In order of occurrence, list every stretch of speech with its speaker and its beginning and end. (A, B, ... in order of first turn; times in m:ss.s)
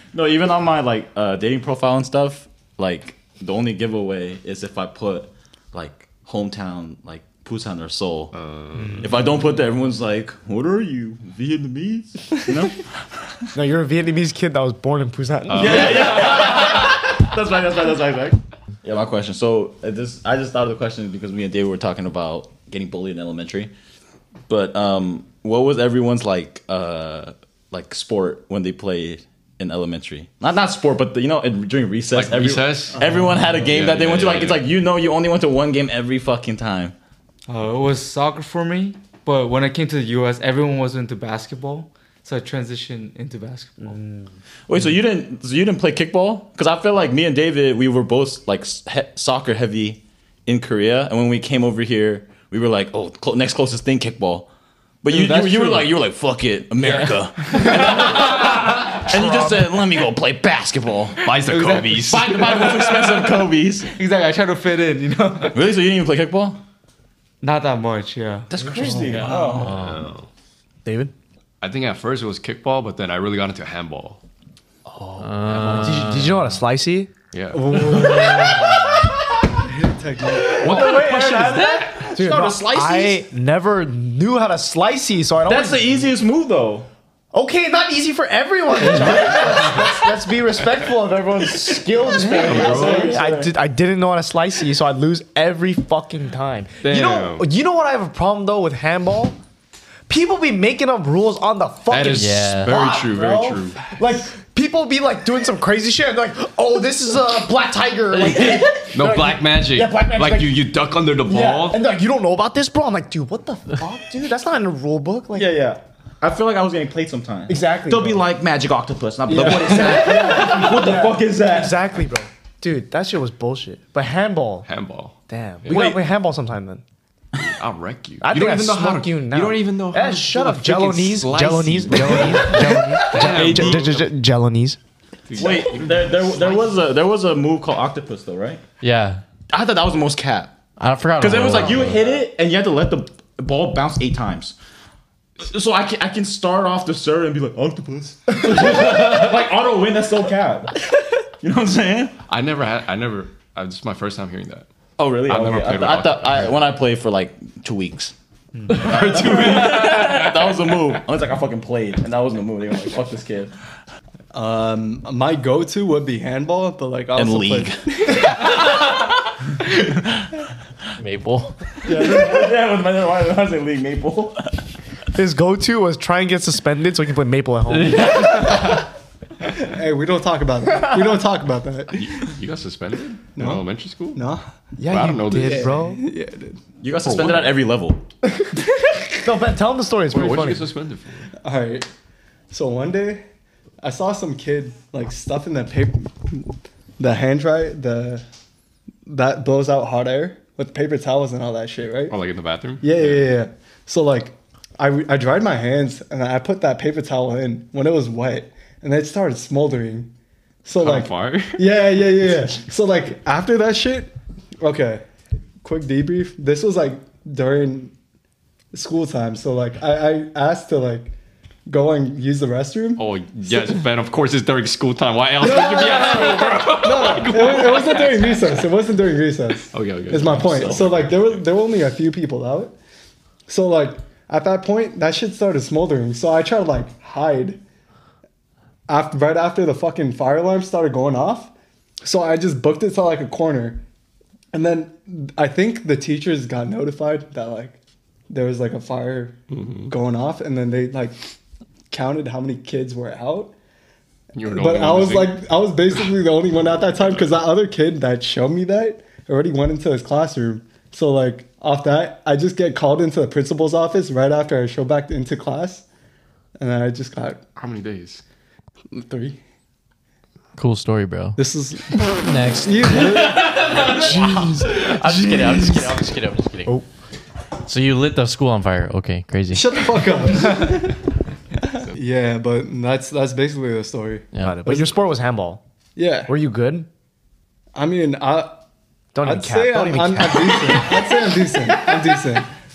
0:00.1-0:08.3 A
0:08.3-0:09.1 B
0:08.8-0:09.3 C
0:09.0-0:12.9 A
0:13.6-0:16.3 D
0:15.5-0:16.8 B
0:15.5-0:23.7 A
0:24.5-0:36.9 A
0:32.1-0:34.7 B
0:37.5-0:44.0 C
0:43.9-0:44.3 D
0:44.7-0:54.5 A
0:55.0-1:01.3 A
0:55.1-0:56.0 C
0:56.8-0:57.8 C
1:01.2-1:02.7 B
1:01.5-1:03.4 C
1:01.9-1:03.9 A
1:03.9-1:05.6 C
1:05.5-1:06.6 A
1:07.4-1:09.6 C
1:08.5-1:09.9 A
1:09.5-1:10.0 E
1:09.5-1:10.3 B
1:10.8-1:11.1 D
1:11.6-1:14.2 B
1:14.9-1:17.1 D
1:15.2-1:16.5 E
1:15.5-1:16.2 B
1:17.3-1:18.8 B
1:17.6-1:18.3 C
1:17.7-1:18.7 D
1:19.7-1:20.6 F
1:20.5-1:22.1 B
1:20.5-1:26.1 D
1:20.6-1:23.2 A
1:25.4-1:26.9 A
1:27.3-1:39.4 D
1:32.0-1:33.5 A
1:32.4-1:33.2 B
1:36.8-1:37.5 B
1:40.1-1:55.5 D
1:41.9-1:43.9 B
1:42.1-1:42.8 E
1:48.1-1:48.7 E
1:48.9-1:51.8 B
1:55.4-2:01.8 A
1:57.5-1:58.2 D
1:59.3-2:04.7 D
1:59.4-2:00.2 F
2:04.7-2:06.0 B
2:05.3-2:06.8 D
2:07.4-2:14.1 B
2:08.2-2:14.8 D
2:15.3-2:16.7 B
2:15.4-2:18.6 A
2:18.8-2:19.2 E
2:19.5-2:20.5 A
2:20.8-2:22.0 E
2:21.2-2:24.6 A
2:25.4-2:30.9 A
2:31.4-2:32.1 A
2:32.3-2:34.7 B
2:35.0-2:38.1 A
2:35.3-2:36.6 B
2:38.6-2:39.0 C
2:38.7-2:43.5 A
2:38.8-2:40.3 B
2:44.3-2:48.5 F
2:47.2-2:48.3 A
2:51.0-2:51.5 E
2:51.8-2:54.6 A
2:51.9-2:52.4 F
2:55.2-2:58.3 D
2:57.7-2:58.9 E
2:59.5-3:02.3 F
3:01.9-3:04.2 B
3:03.4-3:04.4 F
3:04.8-3:06.0 D
3:04.9-3:05.8 B
3:05.3-3:06.6 F
3:06.8-3:08.0 A
3:07.0-3:07.5 B
3:08.7-3:09.3 F
3:09.2-3:10.7 D
3:10.1-3:11.3 B
3:11.4-3:11.9 F
3:12.5-3:13.2 F
3:13.8-3:18.2 F
3:19.1-3:22.2 F
3:22.1-3:23.3 B
3:22.8-3:30.1 F
3:30.6-3:35.0 F
3:30.8-3:32.3 B
3:35.6-3:37.9 F
3:38.7-3:41.2 F
3:41.7-3:43.0 F
3:43.0-3:48.7 B
3:45.4-3:52.8 F
3:49.7-3:51.5 B
3:53.5-3:57.6 F
3:58.9-4:01.5 F
4:02.0-4:03.8 F
4:04.5-4:07.8 F
4:08.3-4:11.3 F
4:09.5-4:09.9 B
4:11.9-4:13.5 F
4:14.3-4:16.1 B
4:14.4-4:25.8 F
4:26.6-4:27.4 F
4:27.6-4:28.2 B
4:28.9-4:29.4 F
4:30.6-4:31.4 E
4:31.4-4:34.4 F
4:32.0-4:36.8 E
4:33.8-4:34.9 D
4:35.2-4:35.8 F
4:37.7-4:39.8 E
4:39.5-4:41.0 F
4:41.6-4:44.9 F
4:44.3-4:44.6 E
4:44.4-4:45.6 D
4:46.0-4:46.4 F
4:46.3-4:46.9 D
4:47.8-4:48.6 F
4:49.1-4:51.1 D
4:49.2-4:52.5 F